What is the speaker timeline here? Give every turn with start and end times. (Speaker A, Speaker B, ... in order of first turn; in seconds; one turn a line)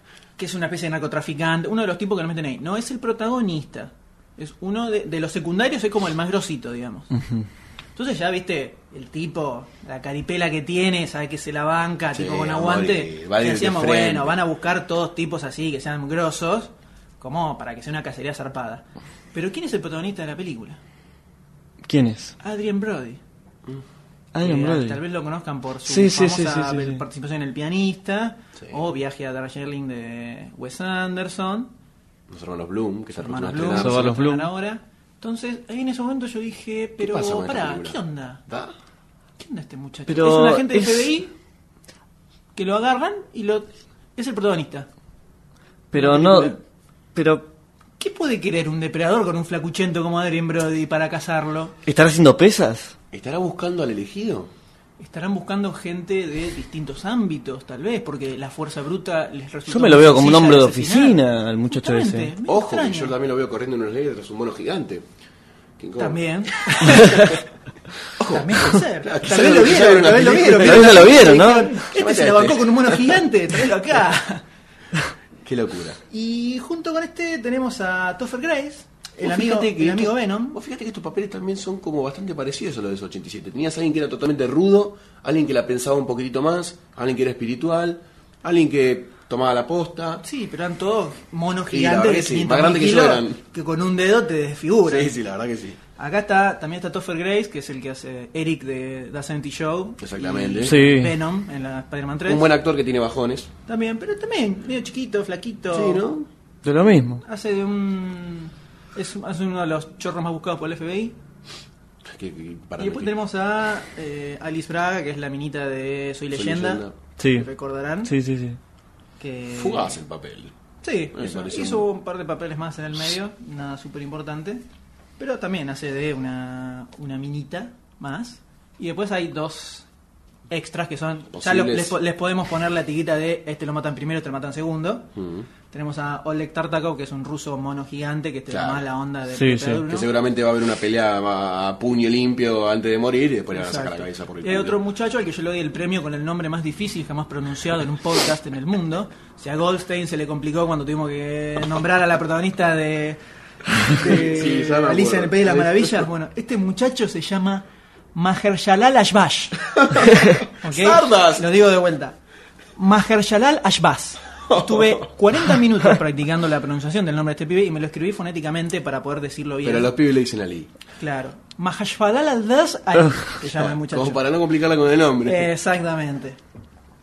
Speaker A: 0.4-7.1
Speaker A: 8.0-20.8
Speaker B: 12.1-14.4
Speaker C: 21.9-22.4
Speaker A: 22.4-23.2
Speaker C: 24.3-25.0
Speaker A: 24.4-31.7
Speaker C: 25.9-27.0
Speaker B: 32.3-34.2
Speaker A: 33.2-38.4
Speaker C: 33.7-34.5
Speaker B: 37.0-38.7
Speaker A: 39.4-41.3
Speaker C: 40.1-41.2
Speaker A: 42.5-44.9
Speaker C: 45.9-46.6
Speaker A: 45.9-46.6
Speaker C: 47.1-47.5
Speaker A: 48.0-51.8
Speaker C: 51.9-52.9
Speaker B: 53.1-54.5
Speaker A: 55.0-63.1
Speaker C: 59.7-62.3
Speaker B: 62.5-65.1
Speaker B: 65.8-67.4
Speaker A: 66.0-67.3
Speaker B: 68.2-73.2
Speaker A: 68.2-74.4
Speaker C: 70.6-71.7
Speaker B: 75.4-76.0
Speaker A: 76.1-80.6
Speaker B: 79.2-90.2
Speaker A: 90.2-95.1
Speaker B: 91.7-93.4
Speaker B: 94.9-95.8
Speaker A: 96.0-102.5
Speaker B: 100.0-100.8
Speaker C: 100.7-101.2
Speaker B: 102.3-103.5
Speaker A: 103.7-106.0
Speaker B: 105.7-106.3
Speaker C: 106.6-107.2
Speaker A: 107.2-111.2
Speaker B: 112.0-113.1
Speaker A: 112.8-118.1
Speaker B: 116.3-116.9
Speaker C: 117.2-117.5
Speaker C: 118.0-118.6
Speaker A: 119.2-120.0
Speaker B: 119.5-120.5
Speaker A: 120.8-124.6
Speaker B: 121.1-121.9
Speaker A: 125.2-129.9
Speaker A: 130.5-135.1
Speaker B: 131.3-132.0
Speaker B: 135.2-135.5
Speaker A: 135.7-140.1
Speaker B: 138.5-138.9
Speaker C: 139.3-139.8
Speaker B: 139.9-144.8
Speaker A: 143.5-153.2
Speaker A: 153.8-159.8
Speaker B: 154.0-156.1
Speaker B: 159.7-161.5
Speaker A: 160.4-162.2
Speaker A: 162.8-169.9
Speaker B: 164.5-165.0
Speaker B: 169.6-170.7
Speaker A: 171.0-174.2
Speaker B: 173.5-175.5
Speaker A: 175.2-176.4